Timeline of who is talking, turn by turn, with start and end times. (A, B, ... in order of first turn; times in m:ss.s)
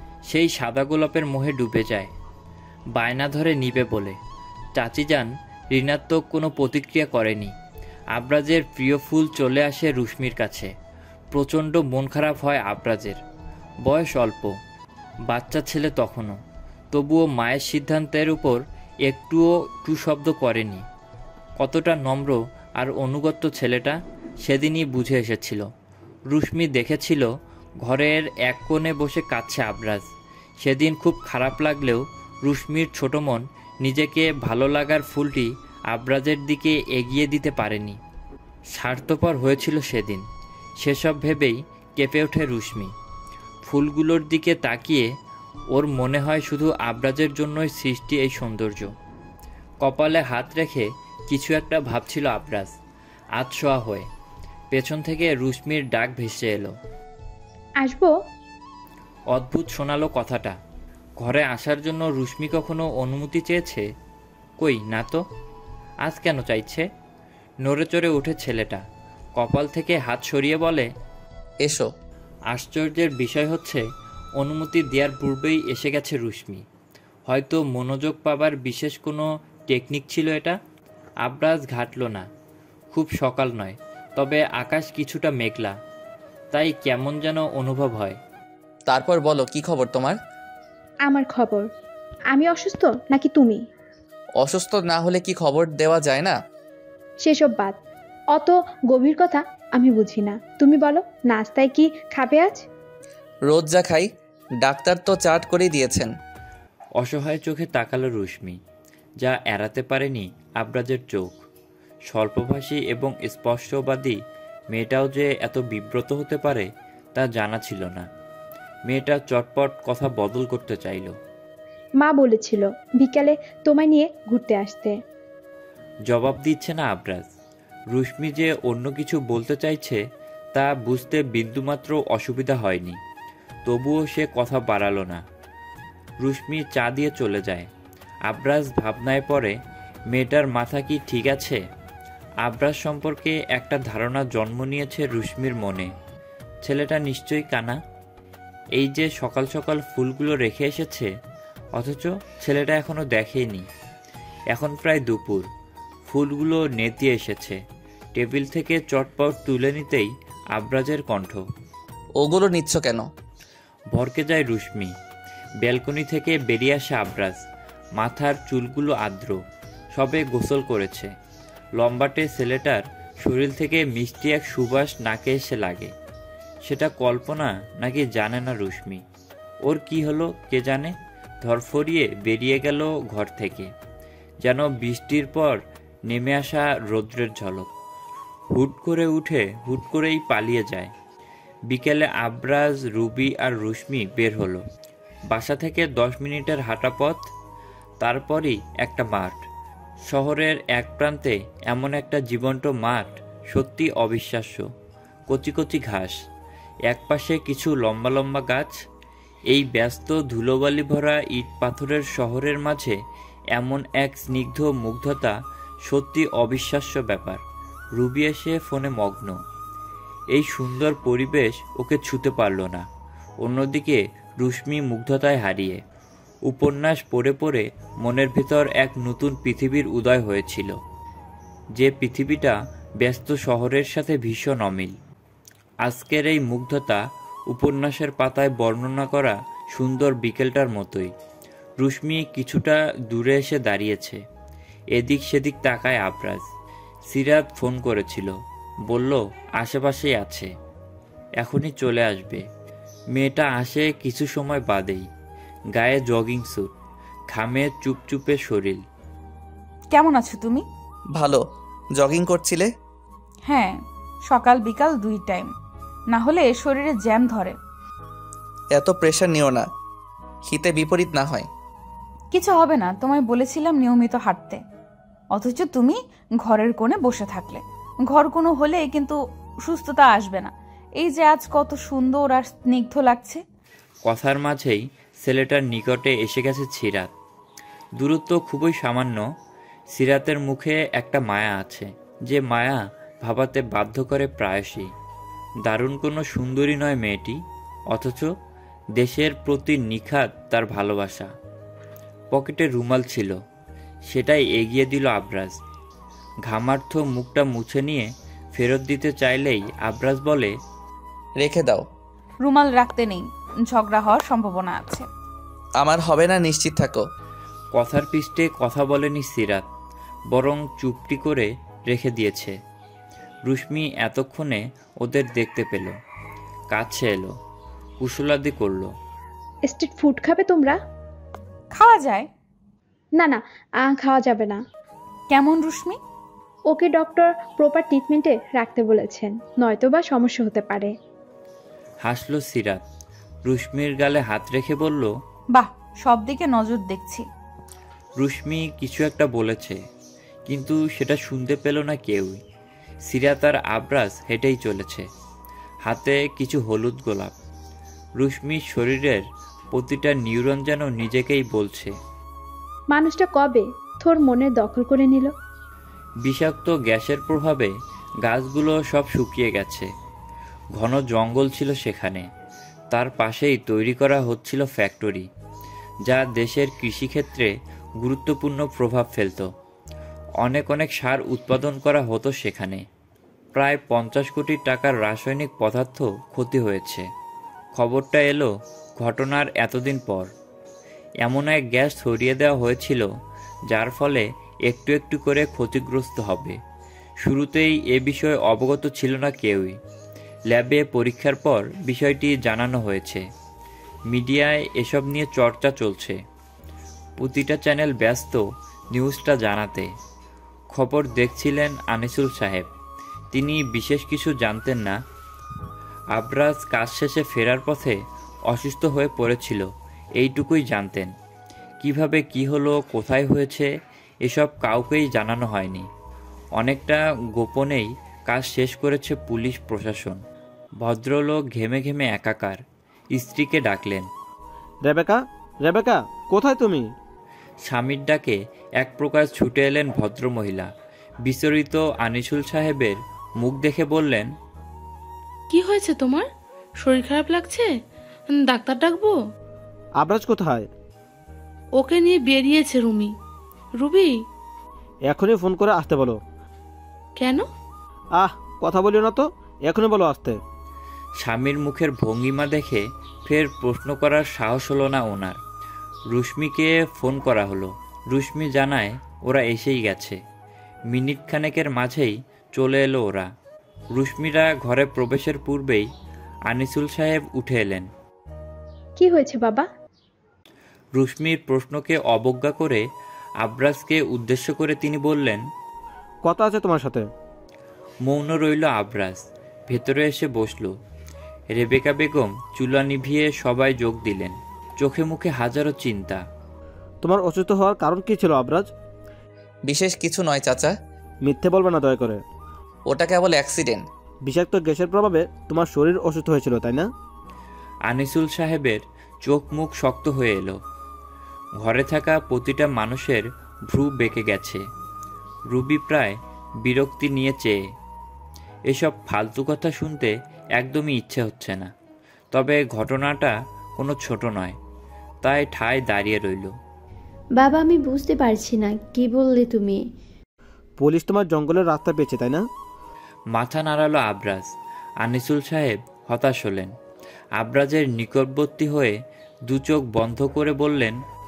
0:00.3-0:02.1 A
0:03.0-0:04.2 A
0:04.8-0:07.5 A
0:08.2-0:10.7 A
0:11.3-0:13.2 A
0:13.8-0:14.5 A
0:15.3-0:16.4 A
0:16.9-0:20.8 A
0:21.6-0:25.6 A
0:26.3-0:27.3 A
0:27.8-0:30.0 A
0:30.6-0:38.0 A
0:38.7-0:40.2 A
0:40.8-0:42.9 A
0:43.6-0:45.1 A
0:45.7-0:48.9 A
0:49.8-0:52.7 A
0:53.4-0:54.1 A
0:54.7-0:56.7 A
0:57.8-0:58.1 B
0:59.3-1:00.6 A
1:01.2-1:03.8 A
1:04.6-1:05.2 A
1:06.1-1:06.8 A
1:07.6-1:08.8 A
1:09.4-1:10.9 A
1:11.6-1:11.9 C
1:12.5-1:13.8 A
1:14.4-1:16.6 A
1:17.3-1:20.6 A
1:21.2-1:22.3 A
1:22.9-1:25.8 A
1:26.5-1:28.2 A
1:28.9-1:30.2 C
1:31.0-1:31.7 B
1:32.3-1:33.6 B
1:34.4-1:36.4 C
1:37.2-1:37.8 B
1:38.3-1:42.6 B
1:43.5-1:44.1 C
1:44.6-1:46.1 C
1:47.0-1:48.6 A
1:49.2-1:51.4 A
1:52.1-1:54.2 A
1:54.7-1:58.1 A
1:58.9-2:01.1 A
2:02.0-2:05.0 B
2:06.1-2:07.3 A
2:07.9-2:10.0 A
2:10.5-2:13.0 A
2:13.7-2:15.2 A
2:16.2-2:17.7 A
2:18.3-2:19.5 A
2:20.1-2:21.6 A
2:22.4-2:25.9 A
2:26.6-2:27.8 A
2:28.8-2:31.1 A
2:31.8-2:33.6 A
2:34.5-2:35.5 A
2:36.1-2:37.6 A
2:38.2-2:41.4 A
2:42.2-2:43.0 C
2:43.9-2:44.9 A
2:45.6-2:47.4 A
2:48.0-2:49.4 A
2:49.9-2:51.1 A
2:51.8-2:55.9 A
2:56.6-2:59.0 A
2:59.7-3:03.7 A
3:04.4-3:05.6 A
3:06.1-3:07.7 A
3:08.5-3:10.9 A
3:11.7-3:14.6 A
3:15.3-3:17.2 A
3:18.0-3:19.4 A
3:20.1-3:24.6 A
3:25.3-3:26.2 A
3:26.9-3:28.7 A
3:29.5-3:32.9 A
3:33.6-3:35.3 A
3:35.9-3:37.4 A
3:38.0-3:39.4 A
3:40.3-3:42.8 A
3:43.4-3:45.8 A
3:46.5-3:50.7 A
3:51.8-3:54.9 A
3:55.8-3:57.0 A
3:57.5-4:01.1 A
4:01.8-4:04.2 A
4:05.0-4:06.4 A
4:07.1-4:08.3 A
4:08.9-4:10.5 A
4:11.4-4:12.4 A
4:13.2-4:15.1 A
4:15.8-4:16.7 A
4:17.3-4:18.8 A
4:19.9-4:20.6 D
4:22.0-4:22.7 C
4:23.5-4:23.7 D
4:24.3-4:25.5 D
4:26.1-4:27.6 D
4:28.8-4:29.6 C
4:30.5-4:31.5 C
4:32.3-4:34.6 D
4:35.3-4:43.4 D
4:44.0-4:47.1 A
4:48.0-4:49.2 A
4:49.9-4:54.9 A
4:55.7-4:57.4 A
4:57.9-4:58.3 A
4:59.0-5:01.3 A
5:02.3-5:03.4 A
5:04.1-5:05.6 A
5:06.5-5:10.5 A
5:11.4-5:11.8 C
5:12.4-5:15.1 D
5:15.8-5:17.0 C
5:17.7-5:19.7 A
5:20.3-5:22.5 A
5:23.5-5:26.0 A
5:26.7-5:27.3 A
5:28.0-5:28.9 A
5:29.6-5:30.8 B
5:31.7-5:32.3 D
5:33.2-5:34.6 B
5:35.3-5:36.0 D
5:36.7-5:40.9 B
5:42.0-5:42.8 A
5:43.5-5:45.1 A
5:45.5-5:47.3 D
5:48.2-5:49.8 A
5:50.5-5:52.4 A
5:53.1-5:55.1 A
5:55.9-5:57.4 A
5:58.2-6:01.9 A
6:02.9-6:05.3 B
6:06.2-6:07.7 A
6:08.2-6:09.9 A
6:10.8-6:12.2 A
6:12.9-6:15.3 A
6:16.1-6:17.5 A
6:18.0-6:19.5 A
6:20.4-6:22.8 A
6:23.6-6:27.1 A
6:27.8-6:30.3 A
6:31.2-6:33.1 A
6:33.7-6:36.6 A
6:37.2-6:39.8 A
6:40.5-6:43.2 A
6:44.1-6:46.2 A
6:47.2-6:48.4 A
6:48.9-6:49.9 A
6:50.7-6:52.7 A
6:53.3-6:55.0 A
6:56.2-6:58.0 A
6:58.5-6:59.6 A
7:00.2-7:01.1 A
7:01.8-7:03.7 A
7:04.2-7:05.9 A
7:06.6-7:10.2 A
7:10.8-7:12.6 A
7:13.1-7:14.1 A
7:14.9-7:16.8 E
7:17.6-7:20.7 A
7:21.2-7:24.3 A
7:25.5-7:26.3 F
7:26.8-7:27.7 F
7:28.3-7:29.2 F
7:30.0-7:30.7 E
7:31.8-7:33.1 F
7:33.8-7:34.2 F
7:35.1-7:36.2 E
7:37.2-7:37.5 F
7:38.2-7:40.4 E
7:41.2-7:45.4 A
7:46.1-7:50.2 A
7:50.9-7:53.3 A
7:54.0-7:55.9 A
7:56.5-7:57.9 A
7:59.0-7:59.7 B
8:01.0-8:02.8 A
8:03.4-8:05.4 A
8:06.2-8:07.1 E
8:08.1-8:10.7 A
8:11.6-8:16.2 A
8:17.0-8:18.7 E
8:19.7-8:20.7 C
8:21.3-8:22.2 E
8:22.9-8:23.8 C
8:24.3-8:26.9 E
8:27.9-8:30.6 A
8:31.6-8:34.6 A
8:35.5-8:37.6 A
8:38.7-8:41.7 A
8:42.3-8:44.6 A
8:45.2-8:46.5 A
8:47.3-8:49.8 G
8:50.8-8:52.4 E
8:53.3-8:54.5 A
8:55.0-8:56.7 A
8:57.4-8:58.9 A
8:59.5-9:01.0 A